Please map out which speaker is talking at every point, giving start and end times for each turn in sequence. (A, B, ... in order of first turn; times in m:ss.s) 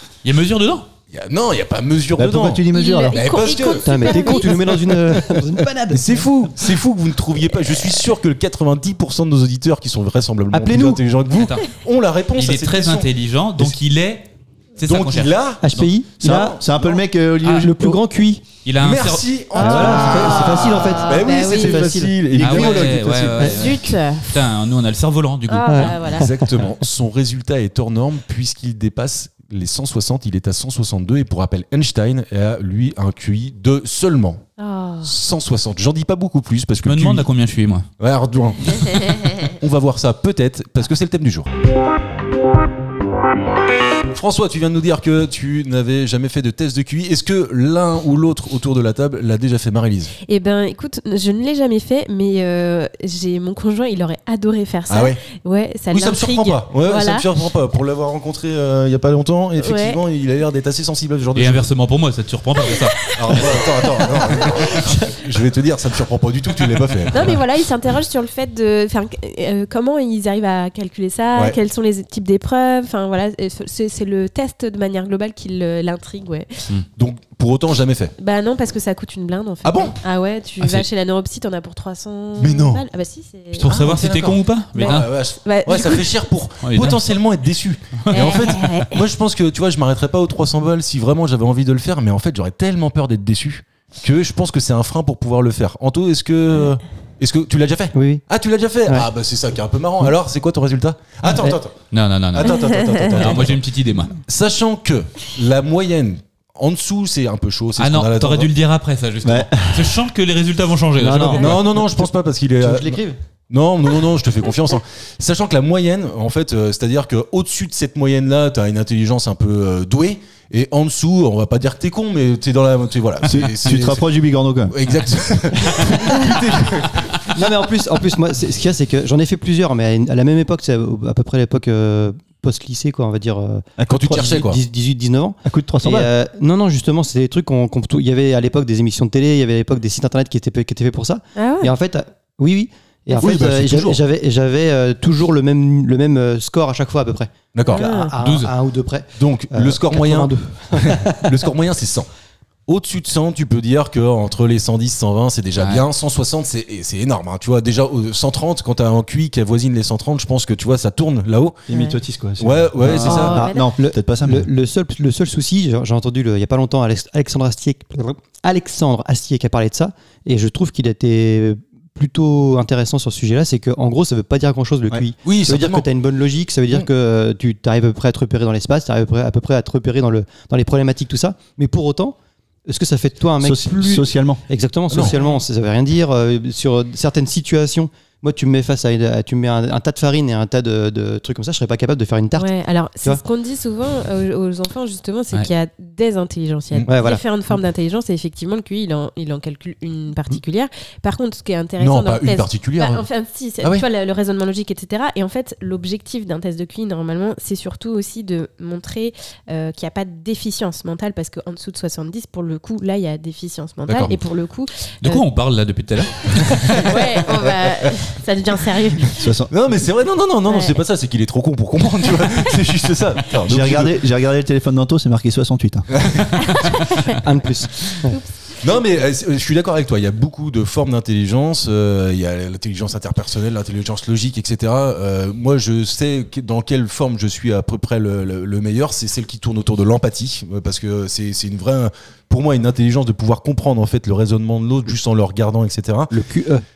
0:00.2-0:00.8 A
0:01.1-0:04.4 B
0:02.2-0:03.2 C
0:02.7-0:05.0 D
0:03.8-0:06.1 E
0:05.9-0:13.1 B
0:10.5-0:11.0 E
0:11.3-0:11.6 A
0:12.4-0:15.9 A
0:14.8-0:15.7 B
0:15.6-0:16.6 E
0:16.2-0:18.0 C
0:16.2-0:17.0 B
0:17.4-0:17.7 A
0:17.4-0:18.4 E
0:18.6-0:20.0 A
0:18.8-0:23.8 B
0:19.6-0:21.9 D
0:19.6-0:22.6 E
0:19.8-0:20.1 C
0:22.4-0:26.0 A
0:23.4-0:24.3 D
0:25.5-0:26.3 D
0:25.6-0:26.4 E
0:26.0-0:34.4 B
0:34.6-0:35.1 D
0:35.0-0:37.3 B
0:36.8-0:37.9 A
0:38.0-0:41.5 B
0:44.1-0:50.1 B
0:50.2-0:57.2 D
0:54.9-0:55.2 B
0:55.9-1:01.7 B
0:59.6-1:00.0 D
1:01.3-1:03.1 A
1:02.7-1:05.0 D
1:03.1-1:07.4 B
1:07.1-1:16.7 D
1:17.0-1:18.1 B
1:18.2-1:23.7 D
1:19.6-1:20.0 B
1:22.4-1:22.8 B
1:23.6-1:43.6 B
1:23.6-1:25.1 A
1:24.8-1:26.1 D
1:26.6-1:27.0 A
1:28.0-1:28.8 A
1:28.1-1:29.0 D
1:37.9-1:38.2 E
1:41.3-1:41.6 E
1:41.9-1:44.1 A
1:42.5-1:43.0 D
1:44.2-1:48.5 B
1:47.8-1:51.6 A
1:49.2-1:49.9 C
1:51.0-1:53.2 E
1:51.3-2:04.1 B
2:03.2-2:04.8 C
2:04.7-2:07.4 B
2:07.3-2:31.4 E
2:13.8-2:14.4 C
2:13.8-2:14.6 B
2:15.4-2:16.1 C
2:21.4-2:21.7 D
2:23.1-2:24.0 B
2:27.5-2:27.9 B
2:27.7-2:28.1 D
2:28.2-2:28.5 A
2:29.2-2:32.1 B
2:32.7-2:41.6 B
2:35.6-2:35.8 A
2:41.7-2:44.5 C
2:41.7-2:42.0 D
2:42.4-2:43.5 B
2:42.8-3:02.1 E
2:43.0-2:43.7 D
2:55.2-2:55.9 B
3:02.7-3:12.5 E
3:03.4-3:04.4 C
3:04.9-3:05.2 B
3:12.4-3:35.2 D
3:16.9-3:17.2 E
3:21.8-3:23.0 B
3:33.9-3:34.2 B
3:35.0-3:36.9 A
3:36.7-3:39.3 D
3:37.4-3:37.9 B
3:39.2-3:39.5 C
3:39.5-3:44.0 B
3:40.5-3:40.8 D
3:43.4-3:45.9 C
3:46.0-3:46.5 B
3:46.4-3:47.2 D
3:47.1-3:48.2 E
3:48.1-3:48.7 D
3:48.6-4:06.1 B
4:06.1-4:06.6 E